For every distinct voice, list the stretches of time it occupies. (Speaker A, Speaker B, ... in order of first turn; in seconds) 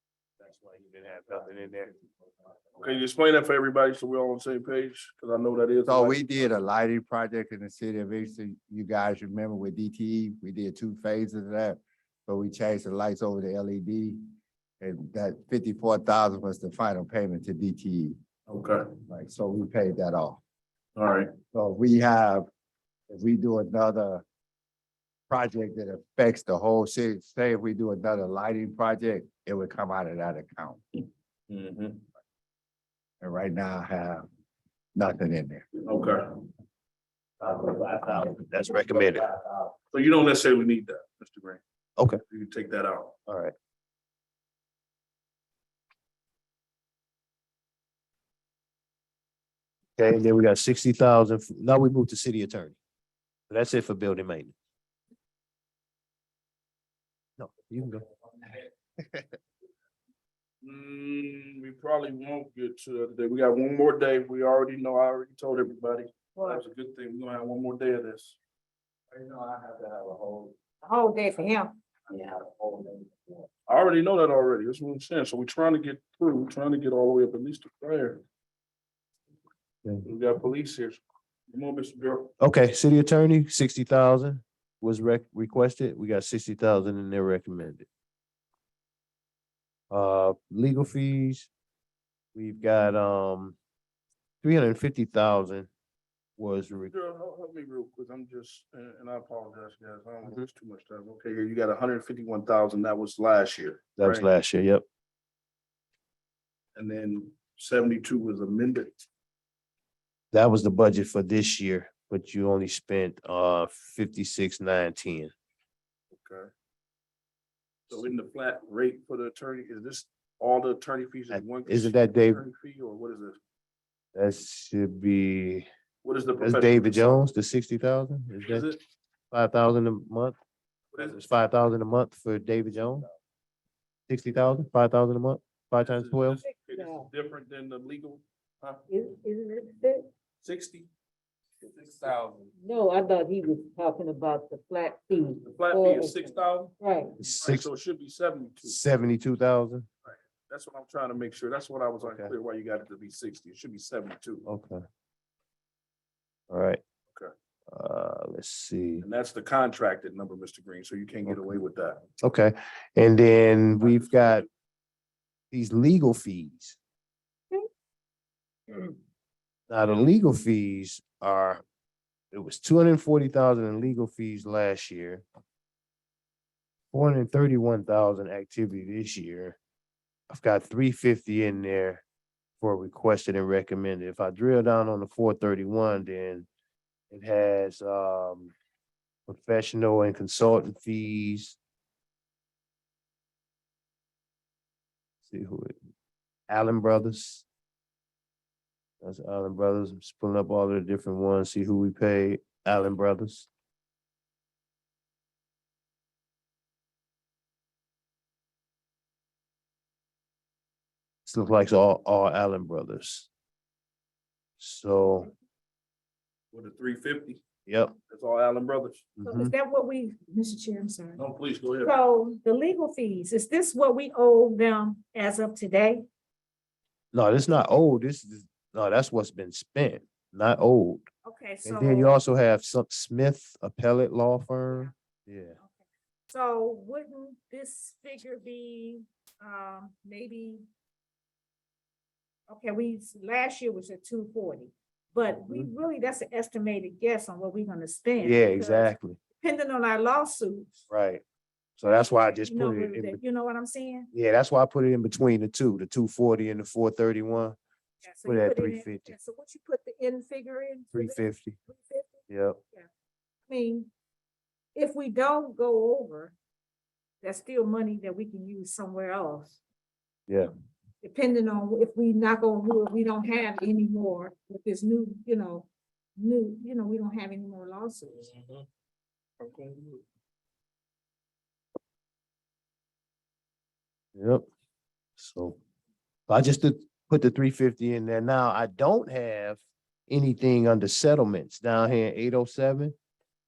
Speaker A: 0.4-1.9, 37.4-39.3, 43.3-43.5, 50.0-52.8, 53.5-54.5, 57.4-58.0, 82.4-87.8, 89.9-91.5, 92.3-93.6, 94.4-95.7, 96.4-96.9, 104.0-104.8, 110.3-115.3, 121.3-122.4, 124.1-125.7, 126.4-128.7, 129.3-130.4, 131.0-133.1, 134.1-136.4, 147.2-147.7, 148.6-149.9, 152.0-152.3, 154.4-154.8, 156.5-156.8, 157.7-159.1, 162.2-164.4, 165.5-166.8, 169.7-171.6, 172.3-175.2, 176.9-179.6, 180.3-182.0, 182.6-186.5, 187.1-188.5, 189.3-191.6, 195.2-195.7, 196.5-197.4, 199.0-203.5, 211.2-213.3, 214.6-215.3, 217.7-217.9, 219.2-219.5, 227.1-231.0, 231.6-235.6, 245.4-245.7, 248.2-249.2, 250.9-251.2, 251.8-253.2, 254.1-257.6, 258.2-259.1, 260.9-261.6, 262.3-262.6, 284.1-284.4, 285.2-285.6, 286.3-292.9
Speaker B: 2.8-6.5, 18.5-18.9, 20.9-21.3, 31.5-32.0, 35.8-36.4, 39.9-41.6, 42.3-43.1, 60.6-68.4, 73.7-78.2, 80.0-82.3, 96.9-104.3, 106.8-109.0, 116.1-116.5, 117.9-123.4, 126.0-127.3, 128.4-128.8, 130.9-131.2, 135.8-138.8, 140.4-140.9, 141.6-142.5, 145.4-148.8, 150.0-154.4, 159.0-162.1, 163.8-164.1, 216.5-217.4, 218.1-219.1, 221.2-221.9, 278.1-278.6, 279.4-280.0
Speaker C: 5.8-14.2, 14.8-18.2, 19.1-20.4, 21.5-22.5, 23.1-24.2, 25.3-30.8, 33.2-34.2, 34.9-35.6, 39.3-39.7, 69.1-70.5, 72.1-73.5
Speaker D: 66.3-66.6, 70.8-71.7, 136.4-137.1, 138.9-140.1, 142.6-147.1, 219.2-221.2, 221.8-226.1, 231.2-232.2, 235.6-240.6, 242.5-250.8, 251.8-254.1, 258.0-262.9, 263.5-263.9, 264.7-266.3, 267.2-269.6, 271.0-278.3